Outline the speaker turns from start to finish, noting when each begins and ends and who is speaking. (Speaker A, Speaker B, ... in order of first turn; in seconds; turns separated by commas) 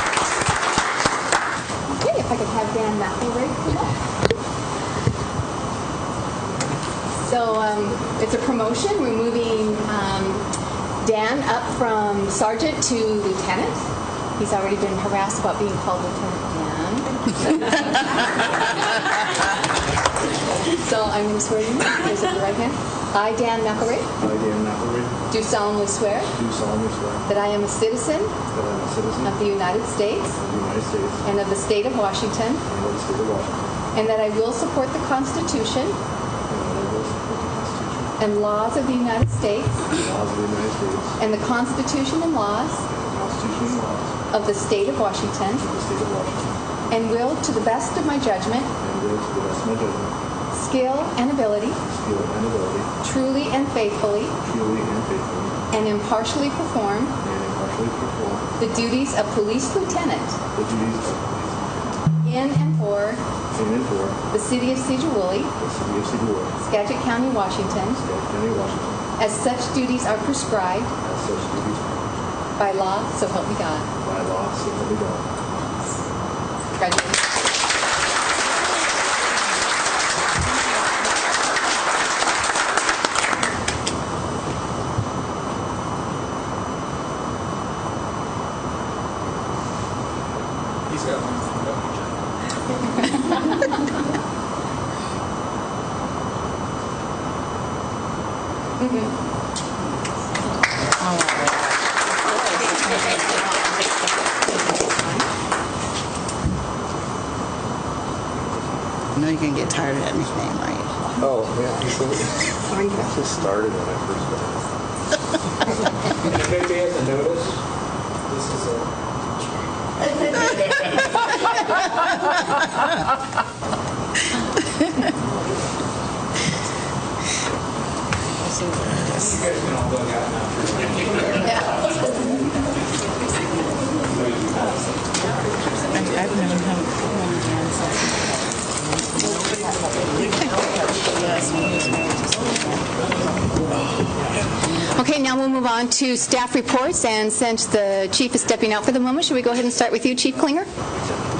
Speaker A: 1.9-3.9, Speaker A: 7.2-10.4, Speaker A: 11.0-13.8, Speaker A: 14.4-18.5, Speaker A: 20.7-24.1, Speaker B: 24.2-25.2, Speaker A: 25.3-26.3, Speaker B: 26.3-27.3, Speaker A: 27.2-28.4, Speaker B: 28.5-29.3, Speaker A: 29.2-30.4, Speaker B: 30.4-31.2, Speaker A: 31.2-32.6, Speaker B: 32.7-33.8, Speaker A: 33.9-36.0, Speaker B: 36.5-38.1, Speaker A: 38.2-39.9, Speaker B: 39.9-41.1, Speaker A: 41.2-42.8, Speaker B: 42.9-44.1, Speaker A: 44.3-45.6, Speaker B: 45.6-46.6, Speaker A: 46.9-48.7, Speaker B: 48.8-50.1, Speaker A: 50.5-51.8, Speaker B: 51.8-52.9, Speaker A: 53.0-54.4, Speaker B: 54.4-55.6, Speaker A: 55.7-57.1, Speaker B: 57.2-58.5, Speaker A: 58.6-60.4, Speaker B: 60.5-62.0, Speaker A: 62.2-63.2, Speaker B: 63.5-64.2, Speaker A: 64.3-65.5, Speaker B: 65.6-66.5, Speaker A: 66.6-68.0, Speaker B: 68.0-69.0, Speaker A: 69.2-70.9, Speaker B: 71.0-72.3, Speaker A: 72.6-73.9, Speaker B: 74.0-75.2, Speaker A: 76.8-77.2, Speaker C: 90.9-91.7, Speaker A: 98.8-99.1, Speaker D: 101.0-101.8, Speaker A: 102.2-103.9, Speaker D: 102.5-103.1, Speaker A: 104.4-105.3, Speaker D: 109.1-111.0, Speaker B: 111.2-114.6, Speaker C: 116.3-117.6, Speaker C: 118.3-118.8, Speaker D: 128.4-129.5, Speaker C: 129.5-131.5, Speaker D: 134.5-134.9, Speaker D: 135.9-142.8, Speaker A: 144.8-150.7